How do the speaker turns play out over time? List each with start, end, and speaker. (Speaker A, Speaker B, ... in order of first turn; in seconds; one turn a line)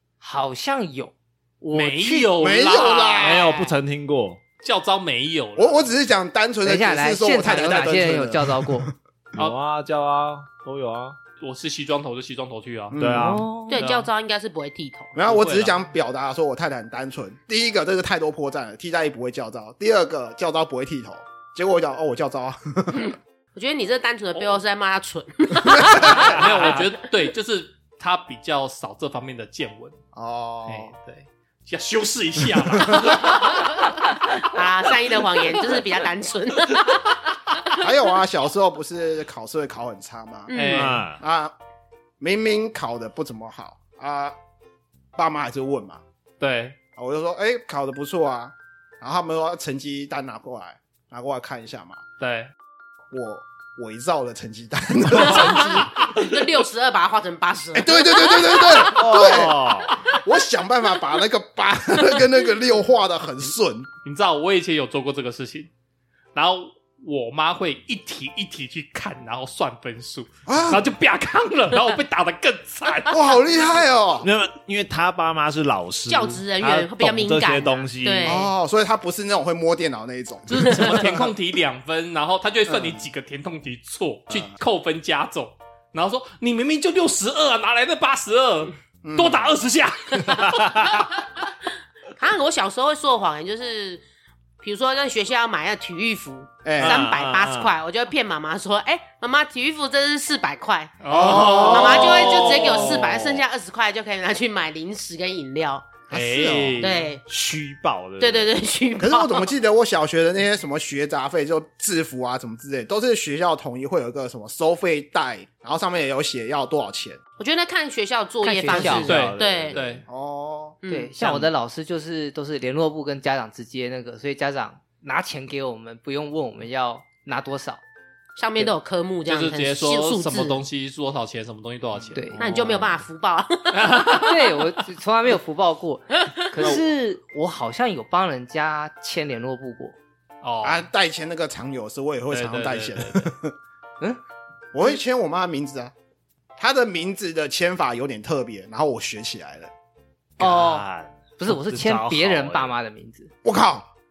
Speaker A: 0.2-2.3
Speaker B: 1.7-3.5
Speaker C: 2.4-3.5
Speaker D: 3.2-4.4
Speaker B: 4.6-5.9
Speaker C: 5.5-8.9
Speaker A: 6.6-8.9
Speaker D: 9.3-11.2
Speaker B: 11.4-13.0
Speaker C: 12.9-13.4
Speaker D: 12.9-13.6
Speaker A: 13.2-13.8
Speaker E: 13.7-15.1
Speaker B: 13.7-14.1
Speaker C: 15.1-23.1
Speaker B: 15.2-15.8
Speaker E: 23.5-26.4
Speaker C: 25.6-26.3
Speaker B: 25.9-29.9
Speaker D: 26.1-26.8
Speaker C: 30.1-30.9
Speaker B: 30.7-33.7
Speaker C: 32.8-33.1
Speaker E: 34.4-37.1
Speaker C: 37.8-41.5
Speaker E: 40.5-41.0
Speaker B: 40.5-41.0
Speaker D: 40.7-41.2
Speaker C: 42.2-44.3
Speaker C: 45.1-46.0
Speaker B: 46.4-46.8
Speaker C: 47.0-52.0
Speaker B: 52.2-52.5
Speaker C: 53.1-56.2
Speaker E: 55.1-60.2
Speaker C: 57.7-63.9
Speaker D: 58.8-60.0
Speaker B: 64.0-65.7
Speaker B: 66.3-73.3
Speaker C: 70.5-70.9
Speaker C: 73.1-74.3
Speaker D: 74.2-78.3
Speaker E: 76.1-78.5
Speaker C: 78.2-81.1
Speaker B: 80.5-91.0
Speaker E: 80.5-81.1
Speaker C: 82.7-83.0
Speaker C: 89.0-89.5
Speaker D: 90.3-91.0
Speaker E: 92.2-94.0
Speaker E: 94.6-106.0
Speaker C: 96.6-97.0
Speaker D: 96.8-97.7
Speaker B: 101.0-103.2
Speaker C: 101.1-102.4
Speaker C: 106.1-107.0
Speaker B: 106.1-107.0
Speaker E: 106.8-107.2
Speaker D: 107.2-108.5
Speaker E: 108.2-109.5
Speaker C: 109.0-117.2
Speaker E: 117.4-119.8
Speaker A: 118.4-119.1
Speaker D: 118.7-120.0
Speaker B: 119.0-120.0
Speaker C: 120.0-120.8
Speaker E: 120.8-121.1
Speaker A: 120.9-127.8
Speaker E: 128.3-130.6
Speaker B: 129.2-132.3
Speaker A: 132.1-132.5
Speaker D: 132.3-133.0
Speaker E: 132.4-134.3
Speaker B: 133.7-134.6
Speaker A: 134.0-139.9
Speaker B: 140.4-140.9
Speaker C: 140.6-143.5
Speaker B: 142.3-143.3
Speaker C: 144.7-145.9
Speaker C: 146.6-149.7
Speaker D: 150.4-152.8
Speaker A: 150.4-150.8
Speaker E: 150.4-150.8
Speaker A: 151.4-153.3
Speaker C: 153.4-153.9